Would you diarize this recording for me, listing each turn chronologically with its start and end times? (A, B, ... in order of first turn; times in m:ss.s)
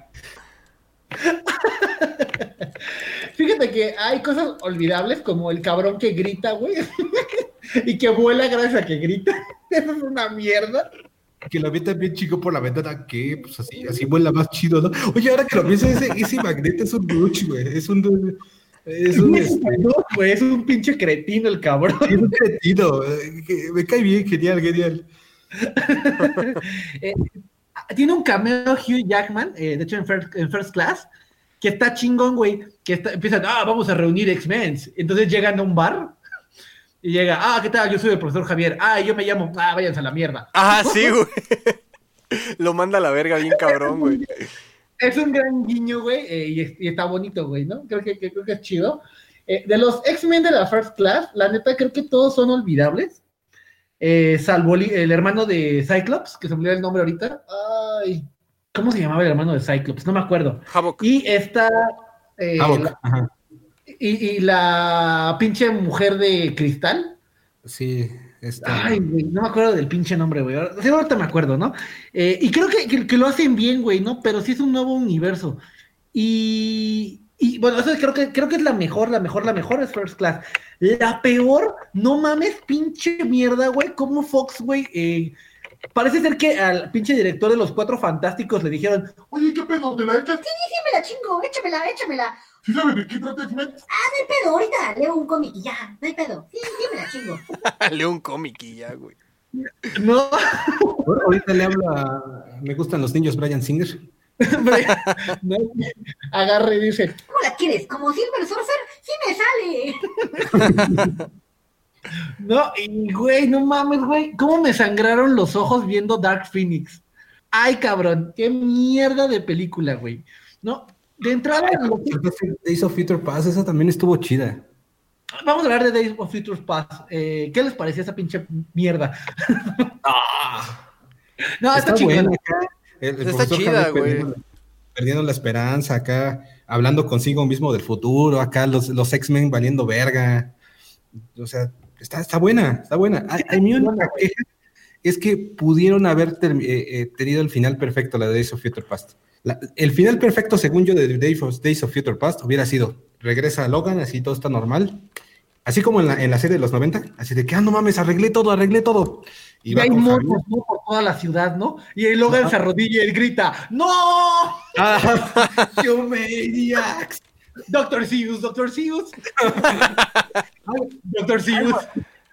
0:01.2-0:02.5 A
0:03.3-0:10.9 A
0:11.5-0:19.8 B
0:19.1-0:22.2 A
0:22.0-0:25.1 B
0:25.6-0:27.3 A
0:27.9-0:31.1 A
0:31.6-0:36.2 A
0:37.0-0:41.1 A
0:40.5-0:41.8 C
0:42.3-0:44.2 C
0:43.6-0:44.2 A
0:45.0-0:53.2 A
0:54.0-1:02.9 A
1:00.7-1:01.0 C
1:02.6-1:03.3 B
1:03.9-1:07.2 A
1:07.6-1:09.0 B
1:08.6-1:15.6 A
1:16.1-1:25.3 A
1:25.9-1:29.1 A
1:29.3-1:30.4 D
1:30.4-1:32.4 E
1:32.6-1:33.8 D
1:33.9-1:37.4 E
1:37.8-1:39.2 C
1:39.9-1:41.0 A
1:41.0-1:44.0 B
1:44.4-1:47.2 A
1:47.3-1:50.1 E
1:50.5-1:51.2 B
1:52.4-2:02.2 A
2:01.5-2:04.6 B
2:05.4-2:09.9 A
2:10.0-2:10.9 B
2:11.6-2:12.3 A
2:11.7-2:14.4 B
2:13.2-2:14.3 C
2:14.9-2:20.5 B
2:21.3-2:24.4 B
2:23.7-2:24.2 A
2:25.0-2:35.0 B
2:35.6-2:40.4 B
2:39.7-2:45.6 A
2:42.3-2:42.5 B
2:44.8-2:47.2 B
2:47.7-2:49.9 A
2:49.4-2:49.9 B
2:50.6-2:50.9 B
2:51.0-2:51.9 A
2:51.5-2:51.8 B